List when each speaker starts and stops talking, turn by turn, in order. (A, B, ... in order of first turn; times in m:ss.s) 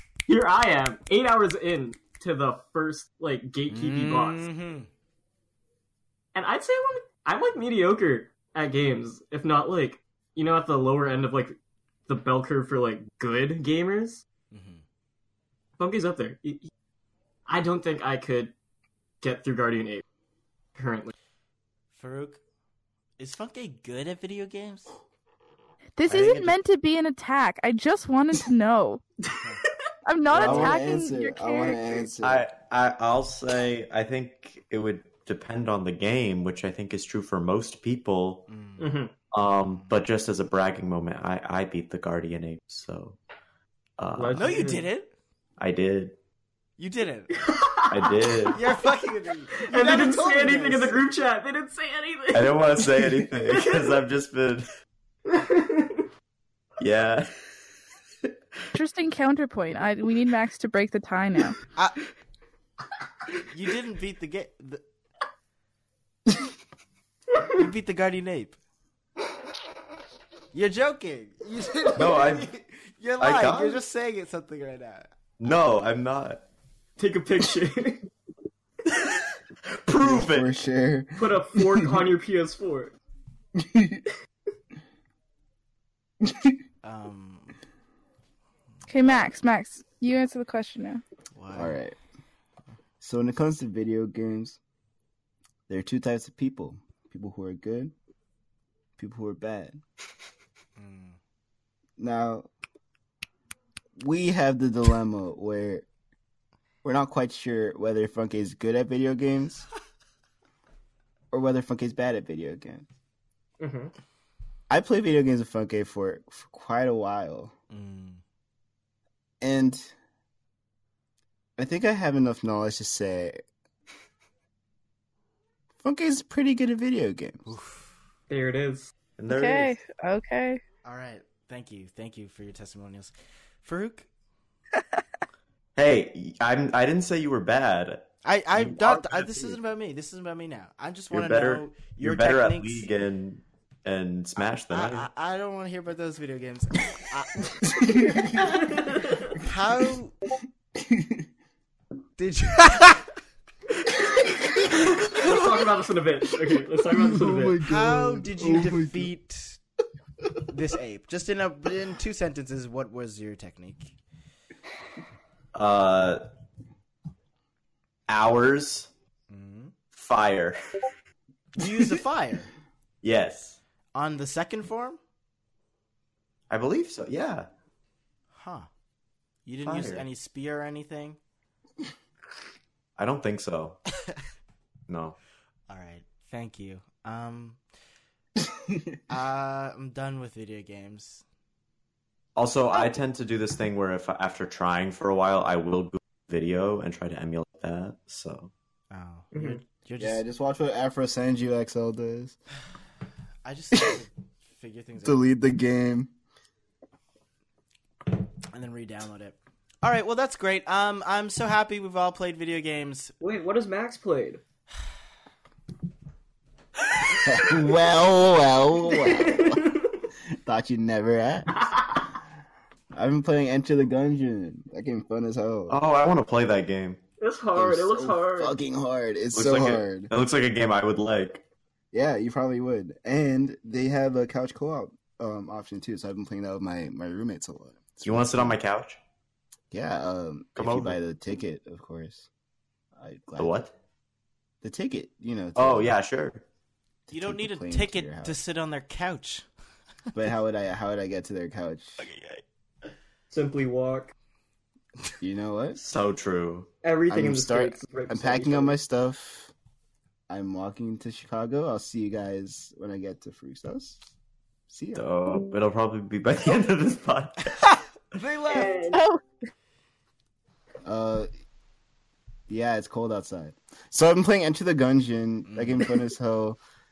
0:00.2-0:04.5 A
0:03.7-0:04.9 B
0:06.3-0:11.6 A
0:12.1-0:14.2 A
0:14.5-0:14.8 B
0:15.8-0:16.7 A
0:17.5-0:18.5 A
0:19.2-0:20.0 A
0:20.7-0:21.1 A
0:21.9-0:22.4 B
0:23.2-0:24.9 B
0:26.0-0:29.0 C
0:26.1-0:26.6 B
0:30.0-0:32.0 C
0:30.3-0:32.4 D
0:30.4-0:30.7 B
0:32.2-0:38.5 E
0:38.5-0:38.9 B
0:38.8-0:39.1 A
0:39.3-0:43.2 E
0:44.0-0:44.6 E
0:44.2-0:44.9 A
0:44.3-0:45.1 B
0:45.6-0:46.1 E
0:46.8-0:47.5 B
0:47.4-0:48.6 A
0:47.9-0:48.6 E
0:48.5-0:51.0 B
0:49.6-0:54.0 A
0:52.3-0:54.6 E
0:55.3-0:56.0 A
0:56.8-0:57.3 E
0:58.7-1:01.6 C
1:01.7-1:02.0 B
1:03.4-1:04.8 B
1:07.5-1:08.6 B
1:10.5-1:15.1 B
1:12.0-1:12.5 E
1:13.2-1:13.8 E
1:15.4-1:16.4 E
1:17.0-1:18.1 A
1:19.7-1:20.5 E
1:20.0-1:21.9 D
1:21.2-1:22.9 A
1:23.6-1:24.0 D
1:26.2-1:26.5 D
1:26.8-1:27.5 B
1:28.9-1:31.0 C
1:31.3-1:31.8 B
1:31.5-1:32.0 D
1:33.0-1:34.6 D
1:35.7-1:37.9 D
1:39.0-1:39.8 D
1:40.8-1:41.2 B
1:42.0-1:42.5 D
1:44.0-1:45.8 D
1:46.8-1:49.6 D
1:51.3-1:52.8 D
1:53.6-1:53.9 A
1:54.7-1:57.5 D
1:57.7-1:58.2 B
1:59.4-1:59.9 D
2:01.6-2:03.4 D
2:05.8-2:07.5 D
2:07.5-2:07.9 B
2:08.3-2:08.9 A
2:09.2-2:09.8 E
2:09.3-2:10.6 C
2:10.8-2:14.1 B
2:15.8-2:18.8 E
2:18.2-2:22.9 B
2:18.8-2:19.6 D
2:21.1-2:25.1 E
2:24.4-2:30.2 B
2:27.6-2:28.5 D
2:28.7-2:29.1 A
2:30.8-2:31.2 D
2:32.2-2:33.0 B
2:34.9-2:37.6 A
2:36.9-2:39.1 D
2:37.6-2:39.6 B
2:40.5-2:43.9 B
2:45.5-2:46.2 E
2:48.1-2:48.9 E
2:49.3-2:49.7 B
2:49.9-2:50.6 E
2:51.6-2:52.5 B
2:53.0-2:53.6 E
2:53.9-2:55.0 B
2:56.5-2:57.5 E
2:58.3-2:58.7 B
2:59.4-3:01.2 B
2:59.6-3:00.0 E
3:03.0-3:03.8 E
3:04.9-3:05.2 E
3:05.7-3:07.6 B
3:08.4-3:09.0 D
3:09.1-3:11.2 B
3:12.4-3:18.5 E
3:18.9-3:20.2 B
3:19.3-3:19.6 A
3:20.0-3:22.4 D
3:23.4-3:25.3 B
3:25.0-3:26.1 D
3:28.5-3:33.1 B
3:33.2-3:34.4 A
3:37.1-3:39.8 D
3:38.8-3:40.0 A
3:40.4-3:41.8 D
3:41.6-3:42.1 A
3:42.9-3:45.8 D
3:45.7-3:47.0 E
3:47.2-3:48.5 A
3:47.5-3:50.1 D
3:49.3-3:51.4 E
3:51.9-3:58.6 D
3:58.0-3:59.0 E
3:59.7-4:02.3 D
4:00.6-4:01.0 E
4:03.0-4:03.6 D
4:03.4-4:03.7 E
4:04.6-4:05.9 D
4:05.6-4:06.4 E
4:07.1-4:08.4 D
4:07.1-4:09.4 B
4:10.1-4:12.0 D
4:12.0-4:12.4 B
4:13.3-4:14.1 A
4:15.2-4:15.8 D
4:15.8-4:16.7 E
4:16.8-4:18.8 A
4:17.1-4:19.5 D
4:20.3-4:24.0 D
4:24.7-4:25.0 D
4:24.9-4:27.6 E
4:27.6-4:28.9 B
4:28.5-4:29.0 A
4:28.6-4:29.2 C
4:30.8-4:31.3 D
4:32.5-4:36.6 D
4:35.5-4:35.9 B